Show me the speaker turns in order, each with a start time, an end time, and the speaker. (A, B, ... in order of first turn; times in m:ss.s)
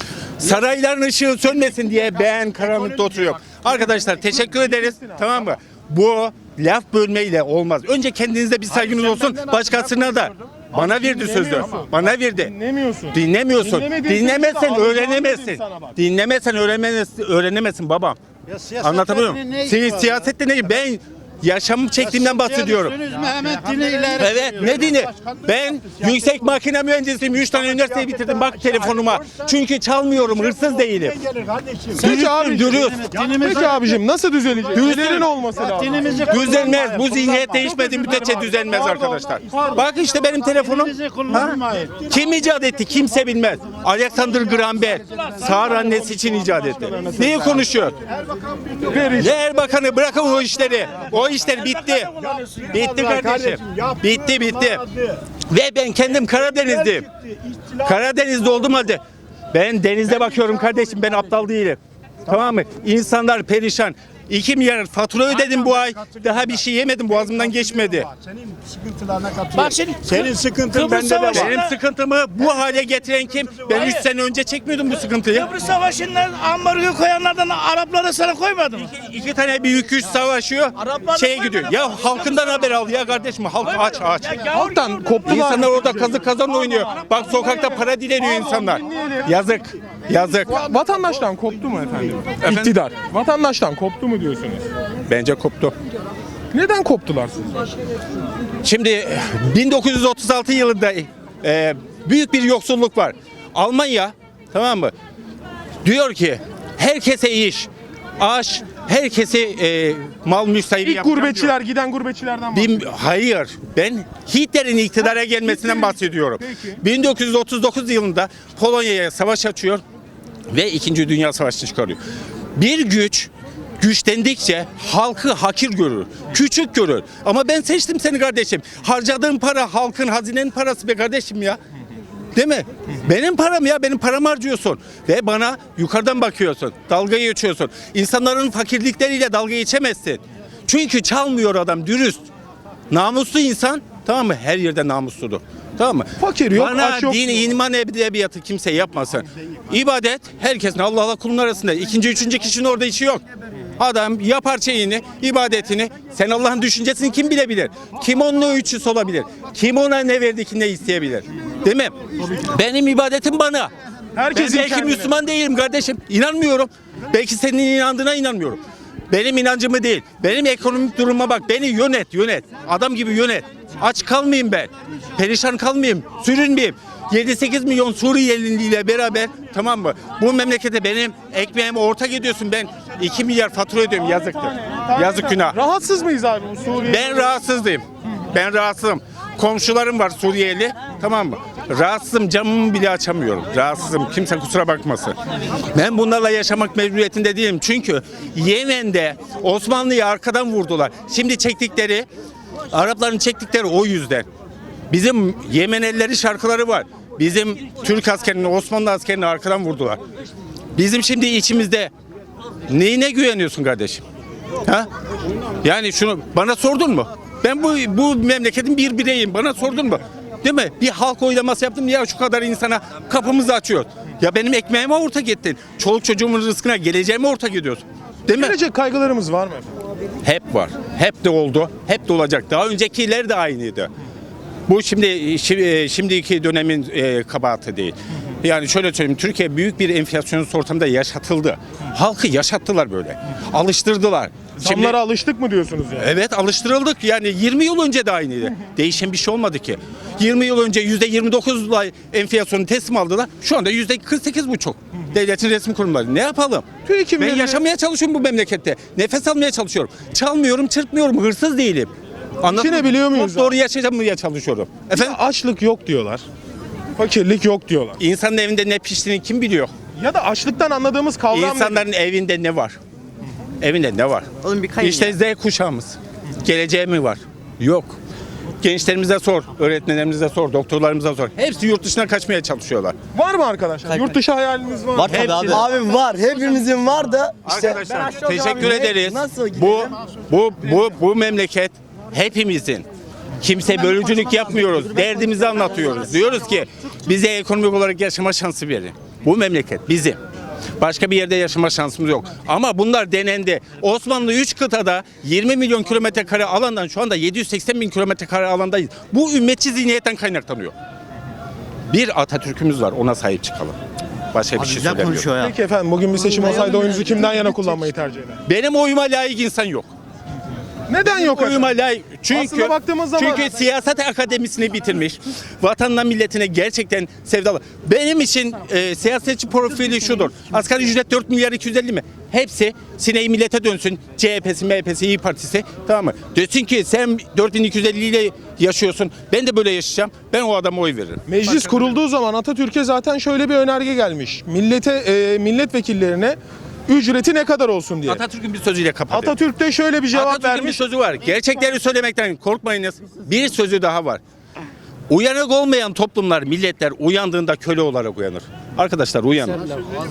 0:00.4-0:12.5 A
0:01.4-0:04.4 B
0:04.2-0:05.4 C
0:08.7-0:10.9 B
0:10.7-0:16.0 C
0:11.5-0:11.8 B
0:13.1-0:18.2 A
0:18.5-0:20.3 B
0:18.8-0:23.0 A
0:22.0-0:26.6 B
0:24.2-0:31.2 A
0:27.3-0:29.6 B
0:30.1-0:32.1 B
0:32.0-0:33.4 A
0:32.0-0:36.2 C
0:33.1-0:34.0 B
0:34.6-0:39.9 B
0:34.7-0:35.3 A
0:35.6-0:36.7 D
0:36.1-0:48.0 A
0:37.6-0:39.8 C
0:40.4-0:42.4 B
0:44.2-0:49.9 B
0:45.1-0:45.4 D
0:46.7-0:47.7 C
0:48.9-0:49.4 C
0:49.2-0:52.1 A
0:50.9-0:52.8 D
0:52.2-0:55.2 B
0:52.7-0:54.8 A
0:55.5-0:57.1 A
0:56.3-0:58.0 B
0:57.8-0:59.0 A
0:59.5-1:08.1 A
1:00.1-1:01.3 B
1:05.3-1:11.6 B
1:09.5-1:11.8 D
1:10.7-1:15.5 A
1:12.4-1:14.0 B
1:13.7-1:14.0 D
1:15.3-1:18.9 D
1:18.8-1:24.4 A
1:20.8-1:22.7 D
1:23.7-1:25.6 D
1:24.5-1:26.3 C
1:25.3-1:30.6 A
1:26.8-1:29.3 C
1:30.5-1:34.7 C
1:32.4-1:32.8 A
1:35.1-1:35.7 A
1:36.5-1:37.7 C
1:38.6-1:44.9 A
1:45.8-1:51.5 A
1:50.8-1:52.9 C
1:52.5-1:59.8 A
1:55.5-1:56.8 C
2:00.5-2:02.0 A
2:02.6-2:11.6 A
2:12.3-2:22.3 A
2:22.9-2:33.2 A
2:26.2-2:27.5 C
2:33.8-2:43.7 A
2:44.2-2:45.2 C
2:44.3-3:05.6 A
3:04.2-3:07.3 C
3:06.9-3:15.2 A
3:15.7-3:22.1 A
3:22.7-3:24.3 A
3:24.9-3:30.0 A
3:30.8-3:31.9 A
3:32.7-3:34.0 A
3:35.6-3:48.6 A
3:48.3-3:49.7 C
3:50.2-3:53.9 A
3:54.7-4:05.0 A
4:04.6-4:06.2 C
4:06.0-4:16.7 A
4:16.8-4:17.6 C
4:17.2-4:25.2 A
4:22.5-4:23.6 C
4:24.9-4:26.2 C
4:27.0-4:28.0 C
4:28.0-4:29.7 A
4:30.0-4:31.8 C
4:31.3-4:32.8 A
4:33.6-4:38.0 A
4:34.6-4:35.1 E
4:38.6-4:43.0 A
4:43.1-4:45.6 C
4:45.0-4:49.9 E
4:45.1-4:45.7 A
4:47.4-4:52.8 A
4:53.4-5:00.2 A
5:00.8-5:10.7 A
5:11.9-5:13.8 A
5:14.3-5:15.3 A
5:14.7-5:15.5 E
5:15.3-5:18.4 C
5:16.7-5:17.4 A
5:18.5-5:19.9 A
5:20.9-5:21.7 C
5:21.1-5:41.8 A
5:22.3-5:23.5 C
5:41.3-5:48.2 C
5:48.1-5:49.4 A
5:49.1-5:50.9 C
5:50.1-5:54.2 A
5:55.1-5:59.7 A